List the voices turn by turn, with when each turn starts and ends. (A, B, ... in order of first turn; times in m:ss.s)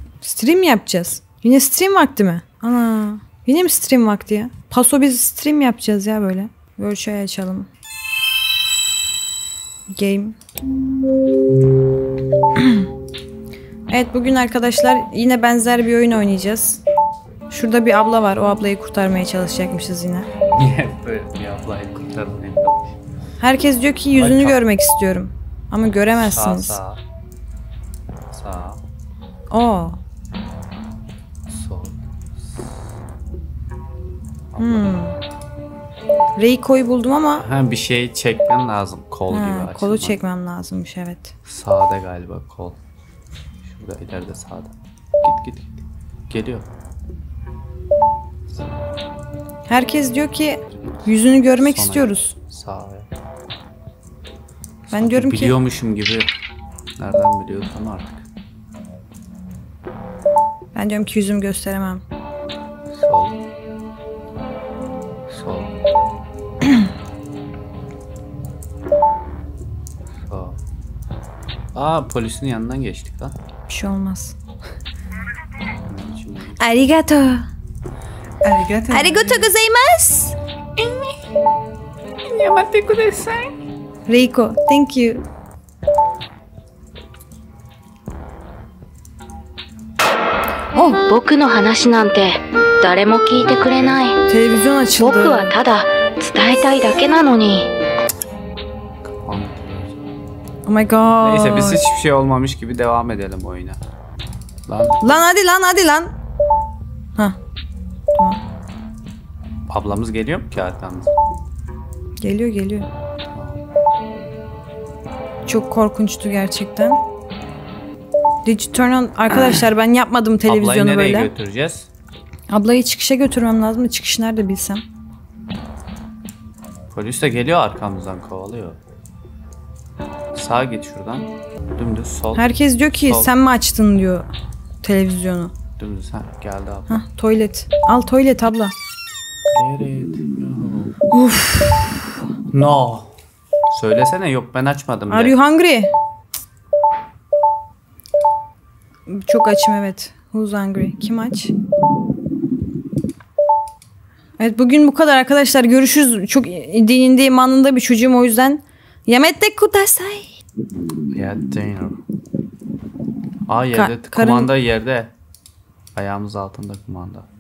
0:00.2-0:07.7 A
0:09.9-0:10.4 A
0:12.6-0:12.8 A
0:13.9-0:16.8 A
0:17.5-0:20.3 A
0:20.5-0:23.0 B
0:23.4-0:26.8 A
0:24.2-0:24.6 B
0:26.1-0:27.0 B
0:28.3-0:28.8 B
0:29.5-0:30.0 A
0:31.5-0:32.0 B
0:34.5-0:35.1 B
0:34.6-0:35.2 A
0:36.4-0:37.5 A
0:37.4-0:40.2 B
0:39.3-0:41.3 A
0:41.5-0:42.8 B
0:43.6-0:46.7 B
0:49.7-0:52.4 A
0:51.6-0:53.1 B
0:54.9-0:56.3 B
0:54.9-0:55.6 A
0:57.0-0:58.3 B
1:00.7-1:02.0 A
1:02.9-1:03.4 B
1:05.3-1:05.7 B
1:10.2-1:10.6 B
1:11.7-1:13.4 B
1:13.7-1:14.4 A
1:15.8-1:16.6 B
1:16.6-1:17.5 A
1:18.4-1:19.5 B
1:18.9-1:20.4 A
1:22.2-1:23.5 B
1:24.1-1:25.2 A
1:30.8-1:34.2 C
1:33.3-1:34.0 B
1:34.3-1:35.5 A
1:35.0-1:37.7 C
1:39.0-1:40.0 B
1:40.7-1:41.8 A
1:41.2-1:43.8 B
1:44.7-1:45.0 B
1:45.0-1:46.1 A
1:48.2-1:48.4 A
1:49.7-1:51.1 B
1:52.2-1:52.9 A
1:53.3-1:53.6 B
1:55.4-1:57.0 A
1:58.4-2:01.3 A
2:00.5-2:01.9 B
2:02.5-2:04.8 A
2:06.9-2:08.8 B
2:10.4-2:13.3 B
2:12.4-2:14.3 A
2:14.8-2:15.6 A
2:15.8-2:17.0 B
2:16.9-2:18.7 A
2:19.5-2:21.0 B
2:21.1-2:22.1 A
2:22.5-2:23.1 B
2:23.7-2:25.4 B
2:25.1-2:25.9 A
2:29.1-2:31.5 A
2:34.4-2:40.4 A
2:41.1-2:42.0 B
2:43.5-2:45.1 B
2:43.7-2:44.5 A
2:46.0-2:47.3 B